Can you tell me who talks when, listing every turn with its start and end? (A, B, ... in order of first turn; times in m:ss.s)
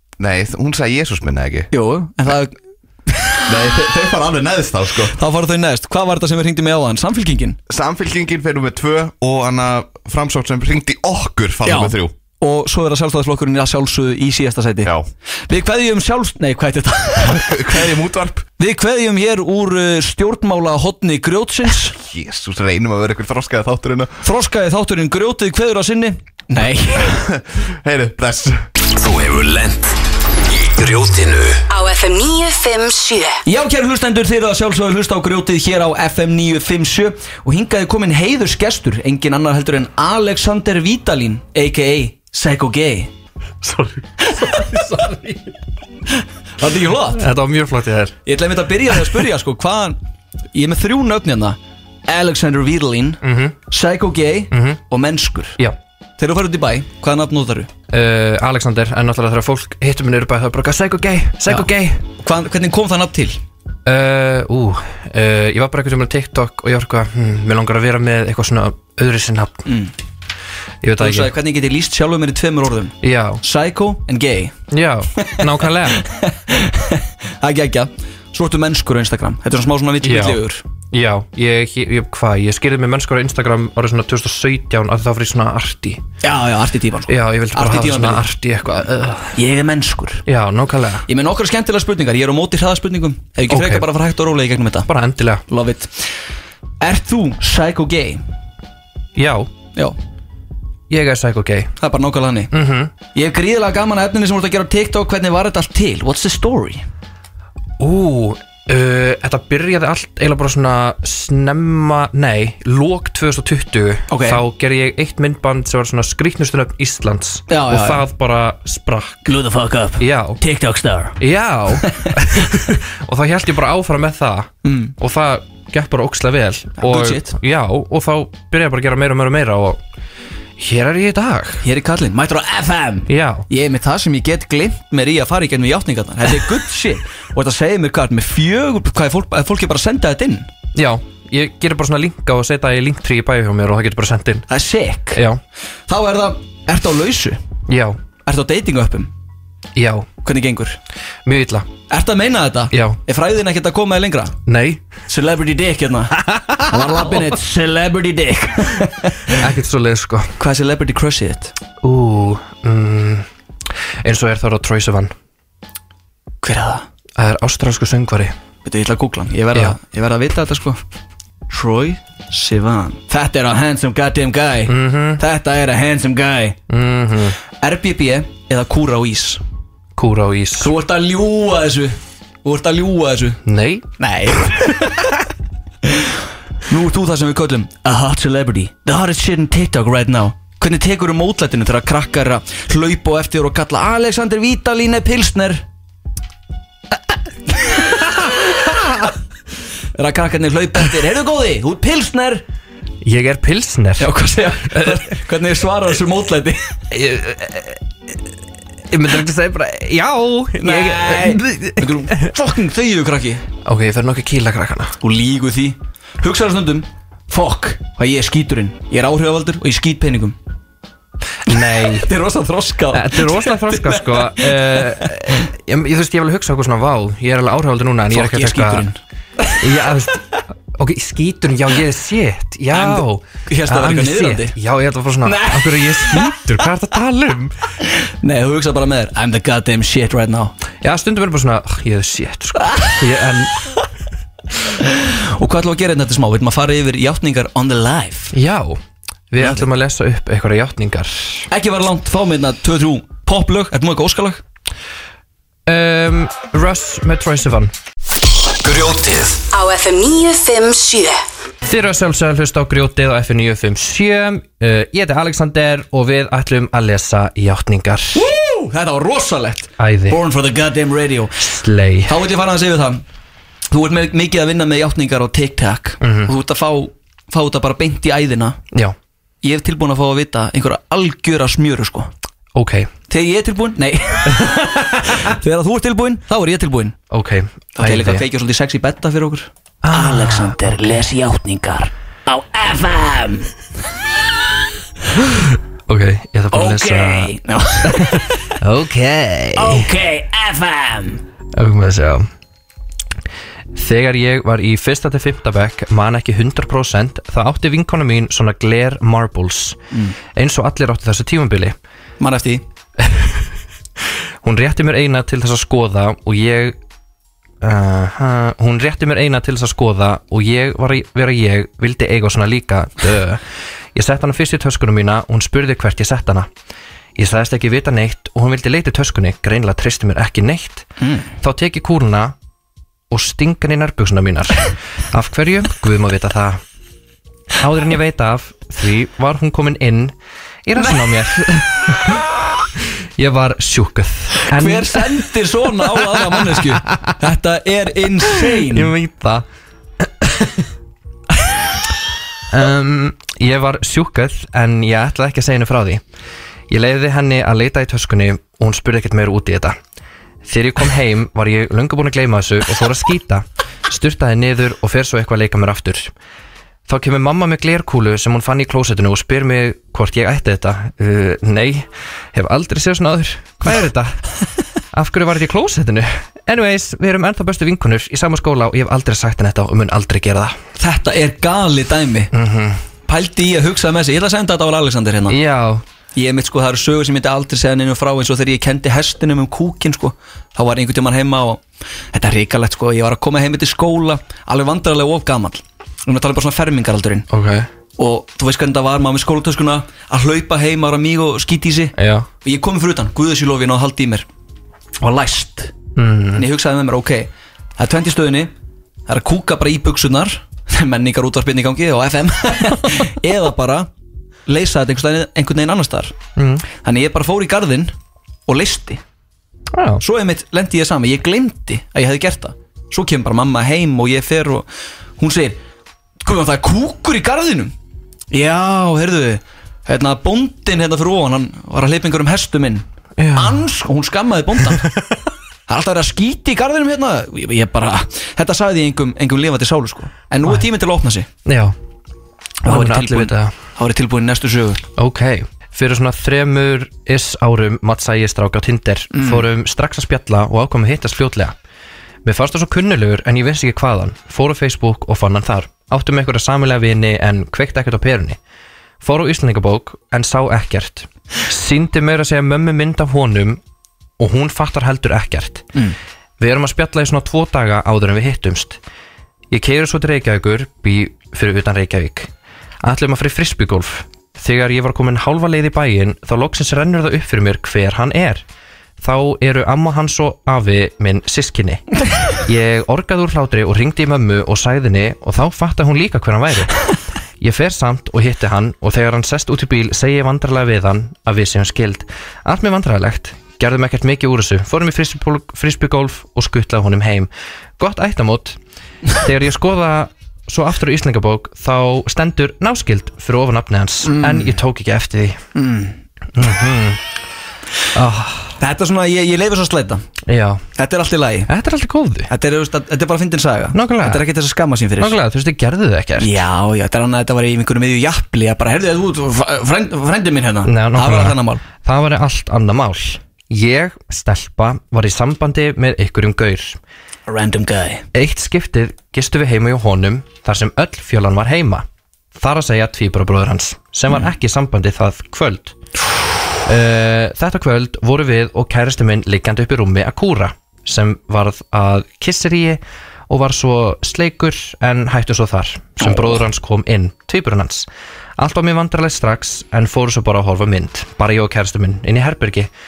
0:00.2-0:01.7 A
0:01.7-0:03.6 B
0:03.4-0:05.2 A
0:05.1-0:07.6 B
0:07.7-0:12.1 A
0:11.6-0:14.9 B
0:15.5-0:17.8 B
0:17.2-0:18.4 A
0:18.6-0:22.0 B
0:21.9-0:24.2 A
0:24.2-0:27.2 B
0:27.0-0:28.7 A
0:28.9-0:29.8 C
0:30.4-0:31.6 C
0:31.7-0:33.4 D
0:33.4-0:43.1 B
0:43.6-0:45.5 E
0:44.2-0:44.6 B
0:46.6-0:47.2 B
0:47.1-0:48.2 E
0:48.2-0:50.0 B
0:50.5-0:55.6 B
0:53.2-0:53.6 E
0:54.5-0:54.8 E
0:56.2-0:57.7 B
0:57.9-1:02.1 E
1:01.5-1:03.4 B
1:03.9-1:09.7 E
1:09.6-1:09.9 B
1:10.8-1:11.3 E
1:11.0-1:14.6 B
1:13.0-1:13.4 E
1:14.7-1:16.0 E
1:15.2-1:20.6 B
1:20.0-1:26.0 E
1:26.2-1:28.2 B
1:27.1-1:29.4 E
1:29.3-1:30.2 B
1:30.2-1:31.0 E
1:31.1-1:34.9 B
1:33.5-1:33.9 E
1:34.9-1:35.4 E
1:35.5-1:36.1 B
1:36.8-1:38.2 B
1:39.2-1:39.5 E
1:40.9-1:41.8 E
1:41.8-1:42.5 B
1:42.5-1:42.9 E
1:43.1-1:46.9 B
1:47.8-1:59.3 E
1:54.1-1:54.4 B
1:57.5-1:58.0 B
1:59.2-2:01.2 B
2:00.0-2:00.4 E
2:01.2-2:09.8 E
2:01.8-2:02.1 B
2:04.6-2:04.9 B
2:06.8-2:07.3 B
2:10.6-2:11.6 E
2:11.6-2:20.5 B
2:13.1-2:13.4 E
2:20.8-2:24.5 E
2:24.5-2:25.2 B
2:25.1-2:25.4 E
2:25.9-2:27.4 B
2:27.7-2:28.0 E
2:28.2-2:29.1 B
2:29.8-2:30.1 E
2:30.2-2:30.8 B
2:31.2-2:31.7 E
2:31.9-2:34.4 B
2:32.7-2:33.0 E
2:34.5-2:34.9 E
2:35.1-2:39.4 B
2:36.2-2:37.3 E
2:39.3-2:40.4 E
2:40.4-2:41.5 B
2:41.8-2:43.2 E
2:44.0-2:45.1 E
2:46.4-2:46.9 B
2:47.2-2:48.3 E
2:48.6-2:50.8 B
2:51.5-2:56.6 B
2:54.7-2:55.2 E
2:56.7-2:57.4 E
2:57.6-2:59.4 B
3:00.0-3:00.7 E
3:00.6-3:03.4 B
3:03.4-3:03.9 E
3:04.0-3:05.1 B
3:05.8-3:06.2 B
3:06.7-3:15.6 B
3:17.6-3:18.1 B
3:18.4-3:19.1 E
3:19.9-3:22.4 B
3:23.0-3:25.2 E
3:24.0-3:26.7 B
3:26.9-3:27.8 E
3:28.9-3:32.3 E
3:30.6-3:33.4 B
3:33.6-3:35.0 E
3:35.0-3:40.4 B
3:41.4-3:42.1 E
3:41.5-3:45.4 B
3:42.9-3:48.9 E
3:48.1-3:49.8 B
3:49.5-3:57.5 E
3:52.7-3:54.5 B
3:55.2-3:56.4 B
3:58.0-4:00.5 B
4:00.8-4:03.7 E
4:02.6-4:03.0 B
4:04.8-4:08.3 B
4:08.3-4:08.8 E
4:09.3-4:11.4 E
4:09.4-4:09.6 B
4:11.5-4:14.4 B
4:15.7-4:17.7 E
4:18.6-4:19.4 C
4:19.5-4:21.2 D
4:21.6-4:28.2 E
4:28.1-4:31.4 B
4:29.8-4:30.2 E
4:31.4-4:32.2 E
4:32.1-4:33.0 B
4:33.7-4:38.6 B
4:36.0-4:36.3 E
4:39.4-4:42.1 B
4:42.6-4:42.9 E
4:43.1-4:47.0 B
4:47.1-4:48.2 E
4:47.8-4:53.5 B
4:49.8-4:50.7 E
4:55.2-4:57.3 E
4:56.5-4:58.4 B
4:57.9-4:59.9 E
4:59.6-5:01.2 B
5:01.5-5:02.3 E
5:03.7-5:09.8 E
5:10.3-5:11.8 E
5:12.2-5:12.6 B
5:13.0-5:13.4 E
5:14.4-5:16.8 E
5:17.6-5:23.4 E
5:23.9-5:26.5 E
5:27.2-5:30.9 E
5:31.0-5:31.3 B
5:31.4-5:32.4 E
5:33.1-5:36.6 E
5:37.6-5:40.1 E
5:40.6-5:42.3 E
5:40.8-5:41.1 B
5:43.2-5:45.3 E
5:44.5-5:48.9 B
5:45.9-5:47.1 E
5:48.4-5:49.4 E
5:50.0-5:50.6 E
5:52.5-5:56.0 E
5:56.7-5:59.8 E
6:00.4-6:06.1 E
6:06.9-6:14.2 E
6:14.9-6:20.6 E
6:20.8-6:22.3 B
6:22.3-6:22.8 E
6:23.1-6:25.4 B
6:25.3-6:25.8 E
6:26.2-6:31.6 B
6:32.1-6:37.3 B
6:37.3-6:37.7 E
6:38.0-6:44.3 B
6:42.0-6:42.3 E
6:45.0-6:45.7 B
6:46.0-6:46.4 E
6:46.4-6:48.5 B
6:49.1-6:53.9 B
6:54.5-6:56.2 B
6:56.4-6:56.6 E
6:56.8-6:57.9 B
6:58.5-6:59.0 B
6:59.7-7:00.0 E
7:00.0-7:04.7 B
7:05.2-7:05.6 B
7:06.2-7:07.7 B
7:08.3-7:14.9 B
7:13.2-7:13.6 E
7:15.7-7:21.3 B
7:21.4-7:21.7 E
7:22.6-7:23.5 E
7:22.6-7:24.8 B
7:25.0-7:31.6 E
7:29.1-7:29.4 B
7:32.2-7:38.4 E
7:39.0-7:43.6 E
7:44.2-7:45.7 E
7:46.4-7:48.8 E
7:49.5-7:52.3 E
7:52.8-7:58.4 E
7:59.0-8:18.6 E
8:19.1-8:25.4 E
8:24.0-8:24.6 B
8:25.6-8:26.0 B
8:26.4-8:27.0 E
8:27.9-8:28.6 E
8:28.6-8:30.0 B
8:30.2-8:30.6 E
8:30.8-8:31.5 B
8:31.5-8:32.3 E
8:32.3-8:35.2 B
8:33.7-8:34.2 E
8:35.0-8:36.4 E
8:36.2-8:41.6 B
8:40.6-8:46.8 E
8:47.3-8:48.0 B
8:48.1-8:51.8 E
8:52.4-8:55.8 E
8:56.6-9:07.9 E
9:06.0-9:06.4 B
9:08.4-9:12.7 E